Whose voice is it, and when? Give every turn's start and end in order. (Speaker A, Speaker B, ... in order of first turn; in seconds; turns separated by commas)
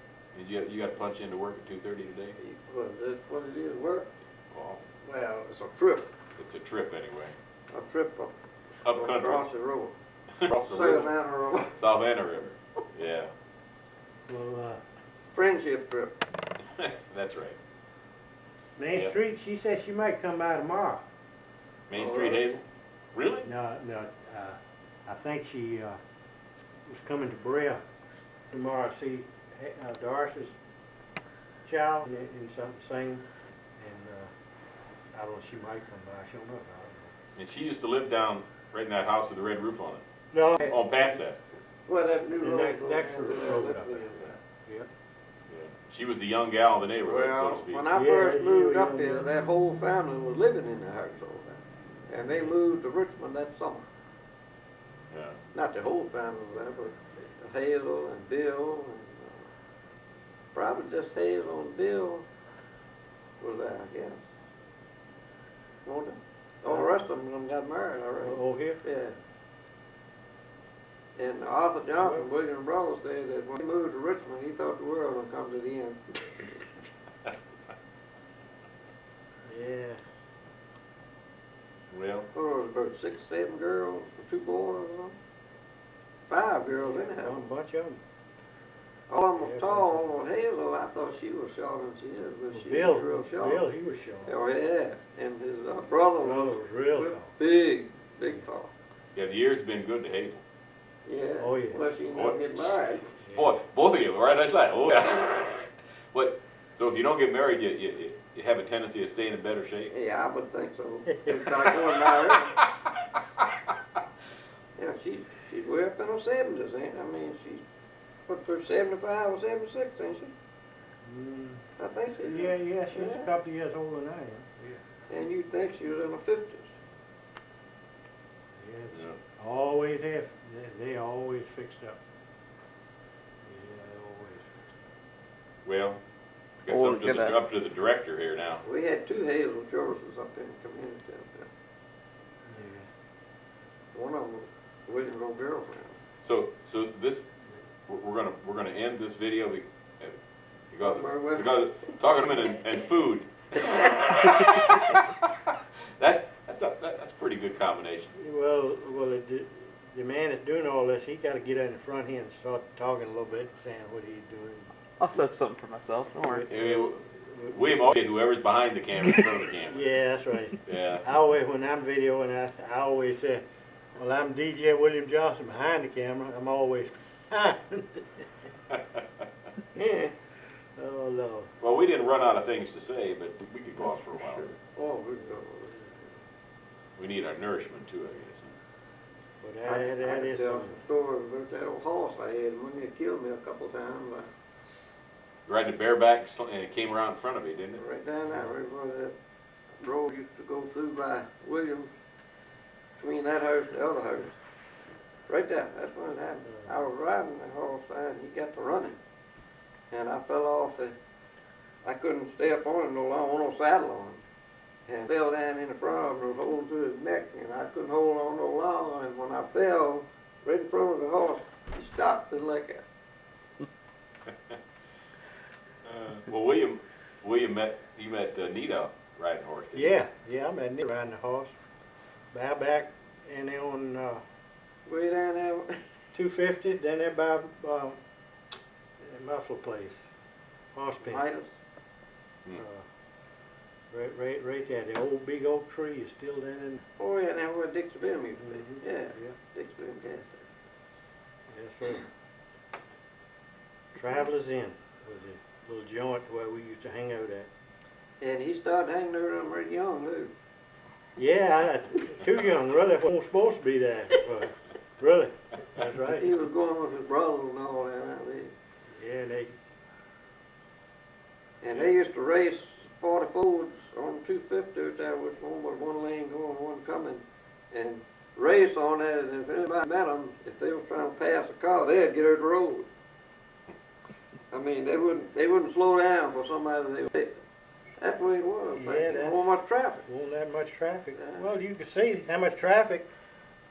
Speaker A: 0.3-2.4, Speaker B: 2.4-4.1, Speaker A: 4.5-4.8, Speaker B: 5.0-6.1, Speaker A: 6.4-7.3, Speaker B: 7.7-8.3, Speaker A: 8.8-9.4, Speaker B: 8.9-10.0, Speaker A: 10.4-11.1, Speaker B: 10.5-11.8, Speaker A: 11.7-13.3, Speaker C: 14.3-14.8, Speaker B: 15.3-16.2, Speaker A: 16.8-17.6, Speaker C: 18.8-21.1, Speaker A: 21.9-22.6, Speaker B: 21.9-22.5, Speaker A: 23.1-23.5, Speaker C: 23.4-26.0, Speaker C: 26.9-27.8, Speaker C: 28.5-30.6, Speaker C: 31.6-33.2, Speaker C: 33.8-34.3, Speaker C: 35.1-37.1, Speaker A: 37.4-40.0, Speaker C: 40.3-41.1, Speaker A: 40.6-41.4, Speaker B: 41.9-44.4, Speaker C: 42.4-44.0, Speaker A: 45.5-47.9, Speaker B: 47.0-53.9, Speaker C: 47.9-49.3, Speaker A: 55.1-55.4, Speaker B: 55.5-59.5, Speaker B: 60.5-62.3, Speaker B: 63.4-64.2, Speaker B: 65.8-69.2, Speaker C: 68.2-68.8, Speaker B: 71.2-76.6, Speaker C: 79.5-80.0, Speaker A: 81.9-82.3, Speaker B: 82.3-85.2, Speaker B: 86.3-87.5, Speaker C: 86.8-88.0, Speaker B: 89.1-93.6, Speaker C: 89.4-90.2, Speaker C: 92.5-94.3, Speaker B: 94.2-98.7, Speaker C: 96.2-97.3, Speaker A: 99.2-100.4, Speaker B: 101.1-103.1, Speaker C: 101.4-101.8, Speaker A: 102.1-109.9, Speaker C: 103.2-103.5, Speaker B: 109.9-112.6, Speaker C: 111.1-111.6, Speaker B: 114.8-117.7, Speaker B: 118.3-120.3, Speaker C: 121.0-121.6, Speaker B: 121.8-123.3, Speaker C: 122.2-124.8, Speaker B: 125.1-126.7, Speaker C: 128.6-132.0, Speaker C: 133.4-134.7, Speaker A: 135.7-136.0, Speaker A: 136.6-138.6, Speaker D: 136.7-137.3, Speaker B: 138.6-141.5, Speaker C: 142.5-142.9, Speaker B: 143.9-146.0, Speaker A: 146.2-147.2, Speaker A: 147.9-150.2, Speaker A: 150.7-155.0, Speaker B: 150.8-151.8, Speaker A: 156.0-158.1, Speaker C: 158.2-164.7, Speaker D: 165.0-166.5, Speaker C: 166.2-167.6, Speaker A: 166.5-169.9, Speaker C: 169.7-173.4, Speaker A: 170.6-171.1, Speaker C: 174.0-178.2, Speaker A: 178.7-179.0, Speaker C: 179.8-180.1, Speaker C: 180.8-181.5, Speaker A: 181.6-184.6, Speaker B: 184.8-185.8, Speaker A: 187.0-188.6, Speaker C: 189.4-190.8, Speaker B: 189.7-194.3, Speaker A: 195.5-197.8, Speaker B: 197.8-199.2, Speaker B: 199.8-201.9, Speaker B: 203.0-204.3, Speaker B: 205.3-209.0, Speaker B: 209.9-211.0, Speaker B: 211.8-214.2, Speaker B: 214.9-222.8, Speaker A: 225.8-230.0, Speaker C: 229.7-231.5, Speaker C: 232.3-234.2, Speaker B: 234.9-235.8, Speaker C: 236.1-238.0, Speaker C: 239.0-240.0, Speaker C: 240.7-241.2, Speaker B: 241.0-241.5, Speaker C: 242.6-242.8, Speaker C: 243.9-246.8, Speaker B: 247.0-250.5, Speaker C: 248.4-249.3, Speaker C: 251.5-252.1, Speaker C: 253.9-257.5, Speaker B: 258.2-260.3, Speaker C: 261.2-266.3, Speaker B: 266.2-268.5, Speaker C: 269.0-269.5, Speaker B: 271.6-282.9, Speaker B: 284.5-287.4, Speaker B: 288.0-290.1, Speaker C: 288.8-289.5, Speaker C: 290.0-293.1, Speaker B: 291.2-291.4